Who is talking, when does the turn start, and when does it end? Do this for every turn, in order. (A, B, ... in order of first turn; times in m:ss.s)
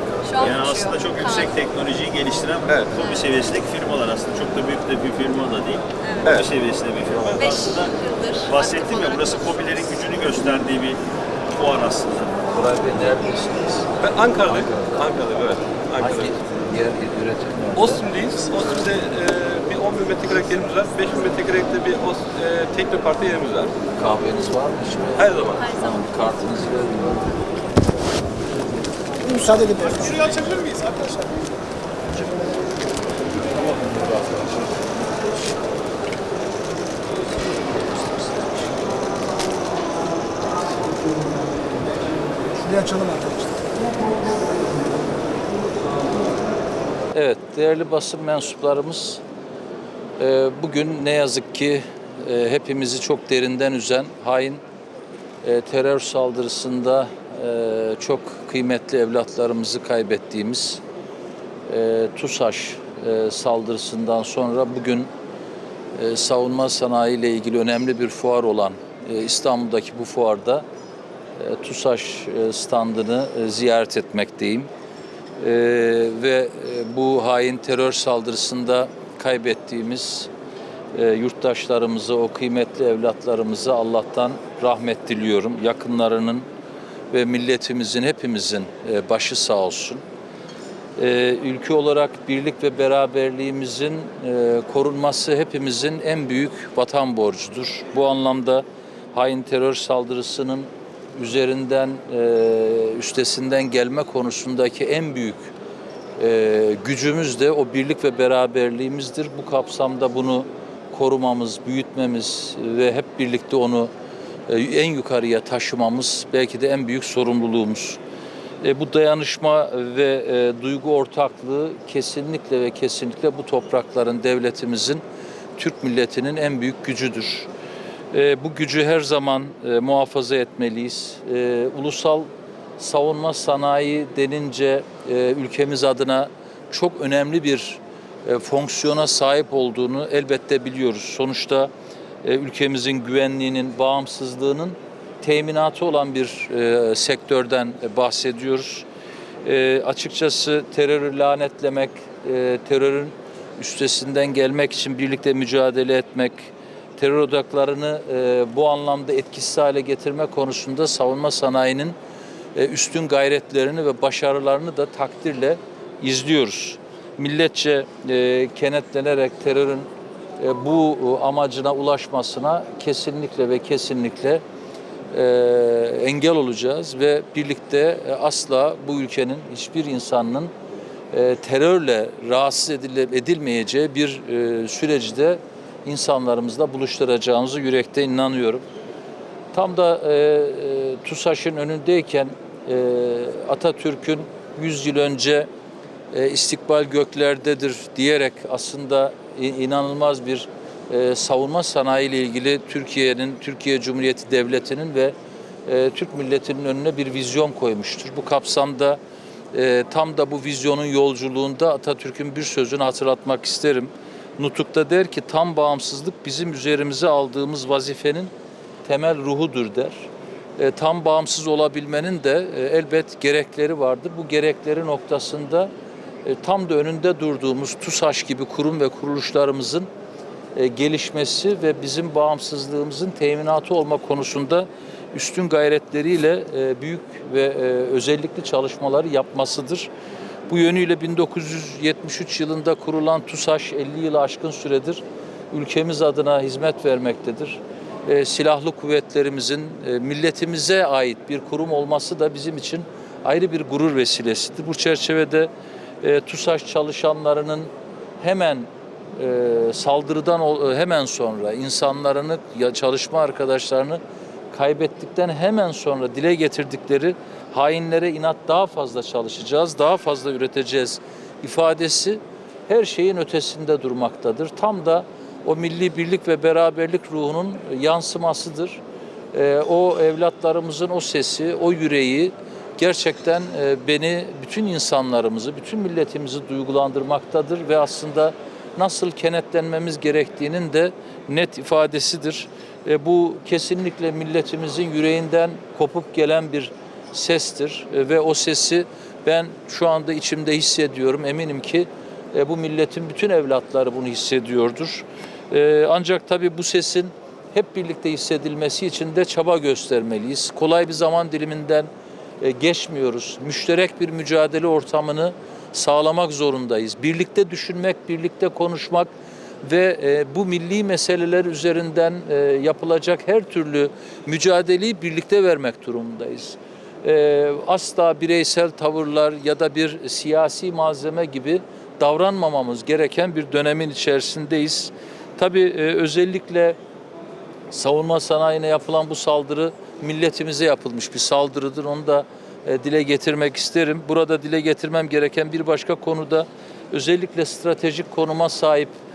0:00.2-0:01.5 A
0:00.4-0:07.9 B
0:02.7-0:03.0 C
0:06.2-0:06.5 C
0:07.0-0:07.6 C
0:07.4-0:09.7 A
0:08.4-0:11.0 B
0:11.5-0:12.3 B
0:12.5-0:15.2 D
0:14.0-0:16.3 C
0:15.9-0:18.1 D
0:17.8-0:23.7 C
0:24.0-0:27.4 D
0:25.2-0:25.6 C
0:29.2-0:31.2 E
0:42.5-0:43.6 E
0:47.1-0:49.2 D
0:50.2-0:54.6 D
0:55.4-1:00.8 D
1:01.7-1:05.1 D
1:05.9-1:10.6 D
1:11.4-1:14.7 D
1:15.4-1:20.3 D
1:20.9-1:26.4 D
1:27.1-1:30.0 D
1:31.0-1:45.5 D
1:46.2-1:53.9 D
1:54.5-1:58.0 D
1:58.6-2:05.0 D
2:05.6-2:07.5 D
2:08.1-2:21.7 D
2:22.2-2:28.8 D
2:29.4-2:42.0 D
2:42.5-2:54.4 D
2:55.1-3:00.5 D
3:01.1-3:08.6 D
3:09.5-3:15.5 D
3:16.1-3:25.1 D
3:25.6-3:29.0 D
3:29.5-3:38.3 D
3:38.8-3:45.7 D
3:46.2-3:49.9 D
3:50.5-3:59.9 D
4:00.5-4:15.5 D
4:16.0-4:38.8 D
4:39.3-5:11.9 D
5:12.4-5:19.1 D
5:19.6-5:36.8 D
5:37.7-5:48.9 D